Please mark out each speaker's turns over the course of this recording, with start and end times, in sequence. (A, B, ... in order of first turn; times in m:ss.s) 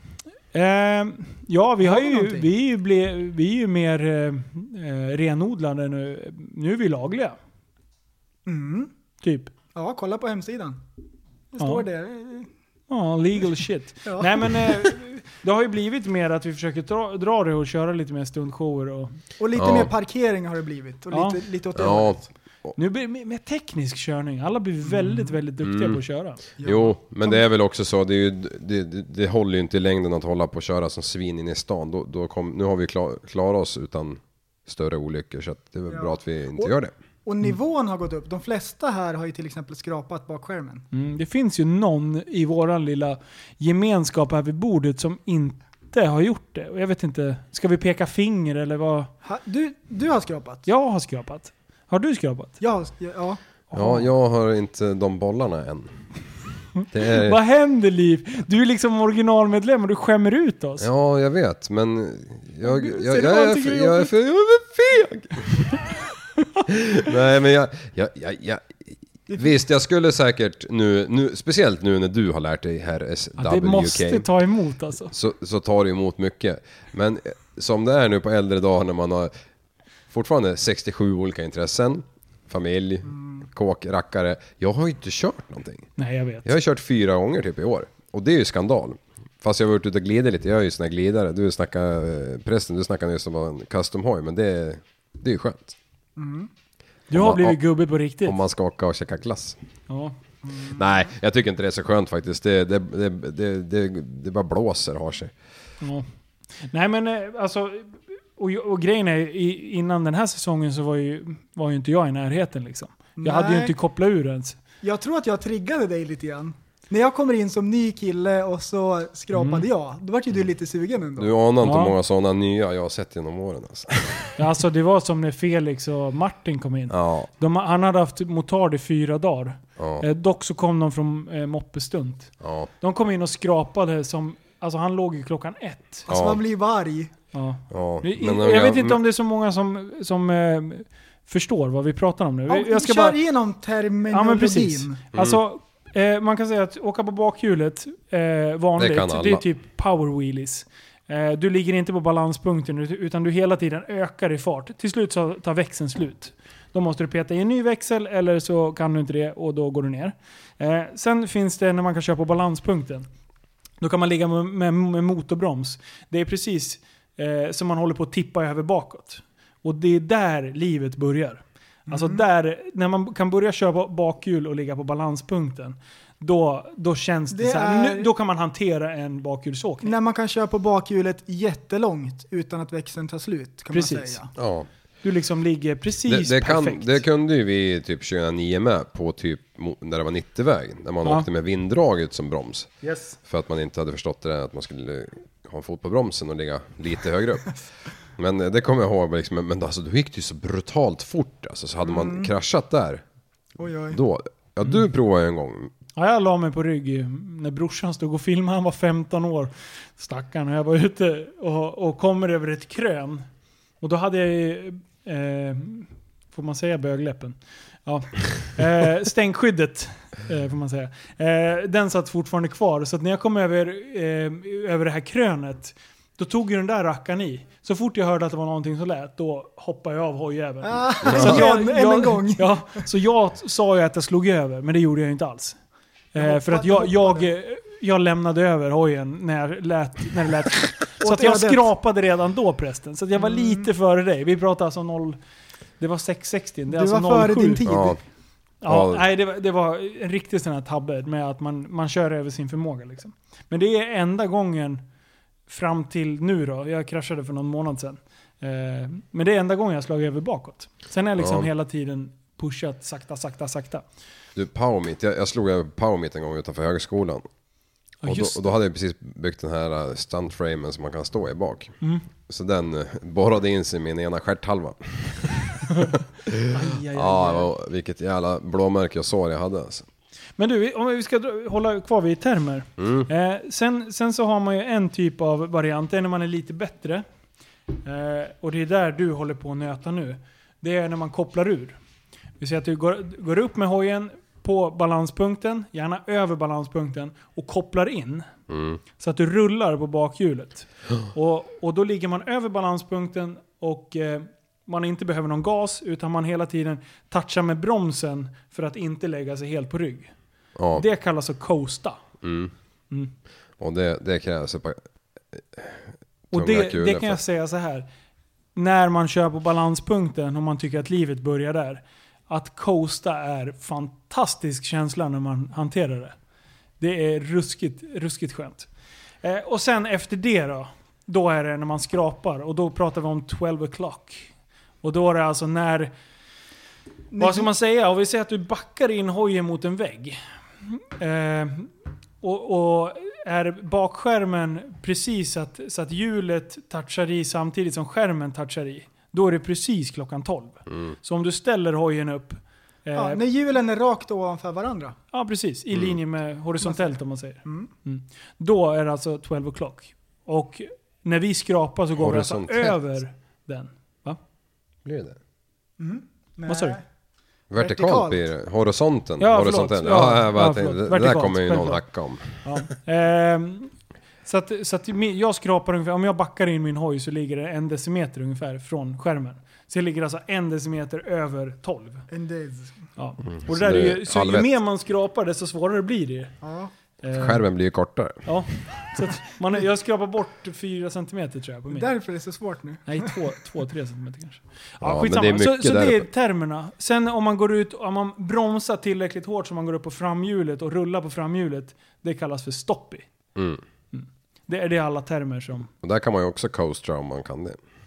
0:00.5-0:07.4 A
0:01.8-0:02.5 B
0:08.5-0:08.9 B
0:09.2-0:09.5 A
0:09.7-0:10.8 B
0:11.5-0:12.5 B
0:11.6-0:11.8 A
0:12.9-0:19.2 A
0:14.0-0:14.9 B
0:19.4-0:22.3 B
0:19.6-0:19.9 C
0:21.1-0:21.4 A
0:21.8-0:22.7 C
0:22.8-0:26.4 A
0:24.9-0:25.3 B
0:25.6-0:26.0 C
0:26.6-0:27.4 B
0:26.6-0:36.9 C
0:35.9-0:36.7 B
0:37.2-0:40.8 B
0:40.9-0:49.1 A
0:49.2-0:50.7 B
0:50.7-0:52.6 A
0:52.6-0:53.4 B
0:53.7-0:54.1 A
0:53.7-0:55.9 C
0:56.9-0:57.4 C
0:57.0-1:00.9 A
1:00.8-1:05.9 C
1:02.6-1:04.1 A
1:06.7-1:14.3 C
1:13.4-1:15.1 A
1:15.1-1:19.3 C
1:20.1-1:25.9 C
1:23.1-1:23.4 B
1:26.0-1:26.5 A
1:26.4-1:35.8 C
1:36.2-1:36.5 B
1:37.1-1:38.4 A
1:37.1-1:37.6 C
1:38.2-1:39.6 C
1:39.9-1:40.2 A
1:40.4-1:40.8 B
1:40.7-1:45.3 C
1:46.6-1:54.6 A
1:53.2-1:53.7 B
1:54.8-2:01.3 B
1:59.3-1:59.7 A
2:01.2-2:04.3 C
2:01.6-2:02.0 A
2:04.4-2:16.1 A
2:06.9-2:07.3 C
2:09.8-2:10.0 C
2:12.4-2:12.7 C
2:16.1-2:16.4 C
2:16.1-2:17.1 B
2:17.3-2:23.2 A
2:17.7-2:19.0 C
2:22.5-2:25.0 B
2:24.1-2:43.1 A
2:25.1-2:25.4 C
2:28.8-2:29.4 C
2:43.8-3:00.0 A
2:51.9-2:52.2 B
2:57.3-2:58.1 B
2:59.8-3:04.3 B
3:03.7-3:04.2 A
3:04.4-3:04.7 C
3:05.0-3:07.0 A
3:06.1-3:12.7 C
3:12.8-3:13.2 A
3:13.2-3:17.6 C
3:18.2-3:23.0 C
3:21.8-3:22.3 B
3:23.6-3:24.0 B
3:23.9-3:25.7 C
3:26.0-3:33.2 A
3:33.8-3:55.6 A
3:50.6-3:52.5 B
3:51.0-3:51.4 C
3:56.1-4:05.2 A
3:56.2-3:57.3 B
4:01.0-4:01.7 B
4:03.2-4:03.7 B
4:05.8-4:07.7 A
4:06.7-4:08.0 B
4:07.6-4:08.0 C
4:08.6-4:14.8 A
4:08.7-4:09.0 C
4:15.5-4:23.8 A
4:21.2-4:21.5 C
4:24.4-4:27.2 C
4:28.0-4:28.4 A
4:28.0-4:31.8 C
4:32.3-4:39.9 C
4:36.5-4:37.5 A
4:40.4-4:47.0 A
4:42.8-4:43.1 C
4:47.8-4:51.8 A
4:52.4-4:58.3 A
4:58.5-4:58.8 C
4:59.0-5:10.1 A
5:10.6-5:10.8 C
5:10.7-5:12.0 A
5:12.2-5:12.5 C
5:13.6-5:14.8 C
5:15.3-5:17.2 C
5:16.3-5:17.9 A
5:18.6-5:26.2 A
5:26.8-5:28.7 A
5:29.2-5:35.9 A
5:37.1-5:37.5 B
5:37.2-5:53.2 A
5:50.7-5:50.9 C
5:53.0-5:55.0 B
5:55.1-6:04.2 A
6:02.0-6:02.8 C
6:04.8-6:05.2 C
6:05.8-6:06.8 B
6:06.5-6:06.8 A
6:07.5-6:12.4 C
6:07.6-6:08.2 B
6:09.2-6:11.8 A
6:12.4-6:13.7 A
6:14.2-6:22.1 A
6:22.1-6:22.8 B
6:23.0-6:26.3 A
6:23.3-6:24.5 C
6:26.4-6:26.7 B
6:27.0-6:27.4 A
6:27.1-6:28.3 C
6:28.2-6:31.9 A
6:31.7-6:33.1 B
6:32.9-6:43.1 A
6:34.8-6:36.1 C
6:43.4-6:43.6 C
6:43.9-6:45.7 A
6:45.8-6:47.6 C